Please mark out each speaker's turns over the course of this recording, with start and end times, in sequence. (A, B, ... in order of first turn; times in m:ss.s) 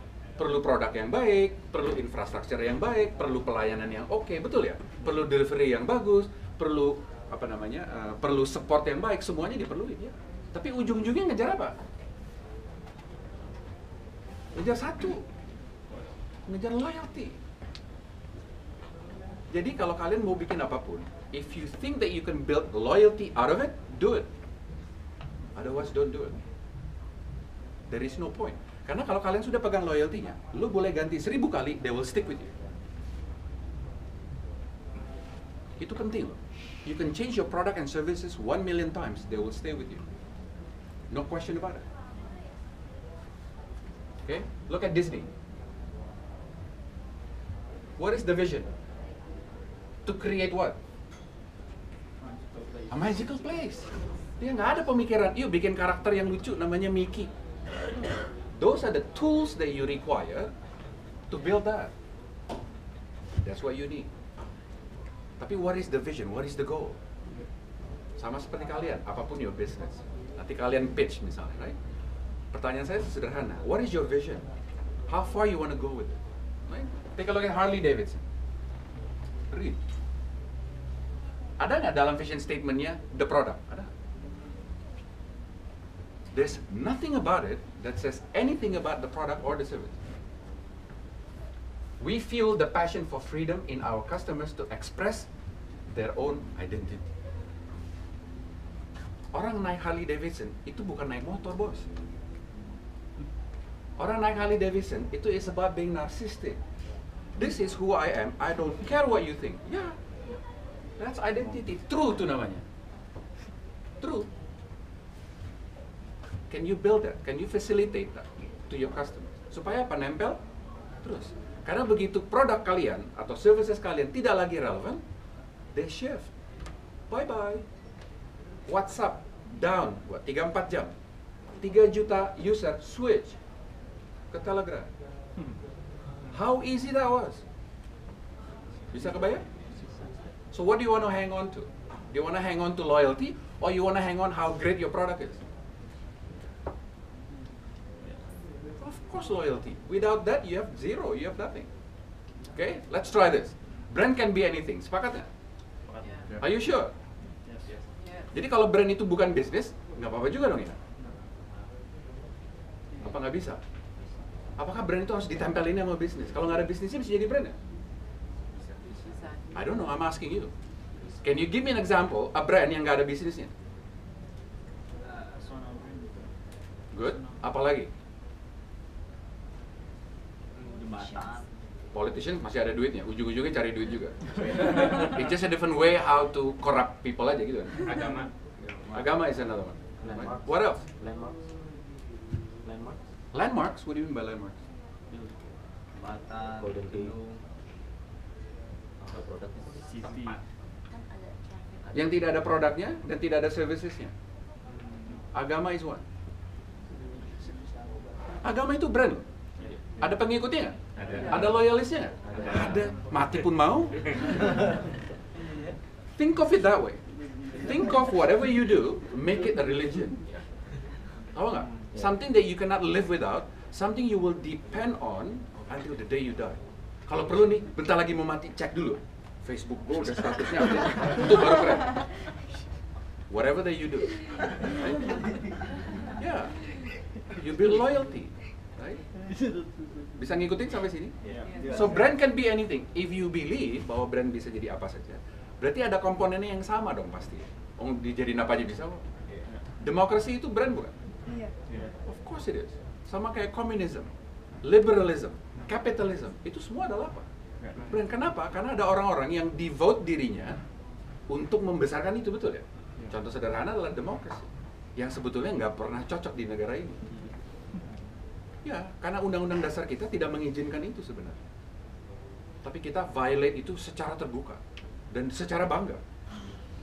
0:00.4-0:11.8 A
0:14.5-0:15.2 A
0:16.5-0:17.4 A
0:19.5-0:24.3 A
0:25.5-0:26.4 A
0:27.9-0:32.5 A
0:35.8-0:40.0 A
0:41.1-0:41.8 A
0:44.2-0:45.3 A
0:48.0-0:48.7 A
0:50.0-0:50.8 A
0:52.9-0:57.3 A
0:58.5-1:00.5 A
1:01.3-1:01.9 A
1:03.4-1:04.1 A
1:05.4-1:07.0 A
1:08.2-1:11.8 A
1:12.5-1:14.4 A
1:15.1-1:18.2 A
1:19.5-1:19.8 A
1:21.6-1:23.9 A
1:26.3-1:30.0 A
1:32.0-1:35.3 A
1:35.9-1:37.1 A
1:39.3-1:41.9 A
1:44.0-1:46.6 A
1:47.4-1:49.9 A
1:51.0-1:52.6 A
1:54.0-1:54.3 A
1:56.5-2:00.4 A
2:01.0-2:05.0 A
2:05.7-2:06.3 A
2:07.1-2:07.6 A
2:08.7-2:10.9 A
2:11.6-2:13.4 A
2:14.3-2:14.9 A
2:16.3-2:17.4 A
2:18.9-2:19.4 A
2:19.8-2:20.0 B
2:20.5-2:25.4 A
2:28.8-2:31.7 A
2:32.5-2:35.3 A
2:35.9-2:36.3 C
2:36.0-2:36.3 D
2:36.4-2:36.9 A
2:37.4-2:37.8 C
2:38.0-2:38.3 D
2:38.3-2:40.8 A
2:43.0-2:43.6 A
2:44.6-2:47.5 A
2:48.5-2:48.9 E
2:48.9-2:50.0 D
2:49.5-2:50.5 A
2:51.2-2:53.5 A
2:55.4-2:56.2 C
2:56.9-2:57.9 A
3:00.5-3:01.4 F
3:00.7-3:01.4 G
3:01.9-3:04.2 A
3:04.4-3:05.0 E
3:04.4-3:05.1 C
3:04.7-3:07.9 A
3:07.8-3:08.3 E
3:08.9-3:10.8 A
3:10.0-3:11.4 B
3:12.6-3:13.0 B
3:13.3-3:14.6 A
3:15.9-3:17.4 F
3:16.6-3:17.2 B
3:19.1-3:19.8 B
3:19.7-3:20.4 C
3:20.0-3:20.4 E
3:20.9-3:22.4 G
3:21.9-3:24.1 A
3:25.3-3:26.0 A
3:28.4-3:29.2 A
3:30.0-3:34.1 A
3:31.0-3:31.4 E
3:31.0-3:31.5 B
3:32.2-3:33.0 B
3:36.2-3:40.2 A
3:41.3-3:52.1 A
3:41.9-3:42.2 B
3:53.3-3:55.4 A
3:56.2-3:56.6 A
3:57.3-3:59.0 A
3:59.3-3:59.9 F
4:00.2-4:01.1 A
4:01.2-4:01.9 B
4:01.3-4:01.6 C
4:01.4-4:02.0 D
4:01.5-4:02.0 F
4:01.7-4:09.0 A
4:09.8-4:10.9 A
4:11.2-4:11.5 D
4:11.7-4:11.9 C
4:12.0-4:14.1 A
4:14.6-4:17.2 A
4:17.6-4:17.9 C
4:17.9-4:20.6 A
4:21.3-4:27.0 A
4:28.6-4:31.4 A
4:32.6-4:36.0 A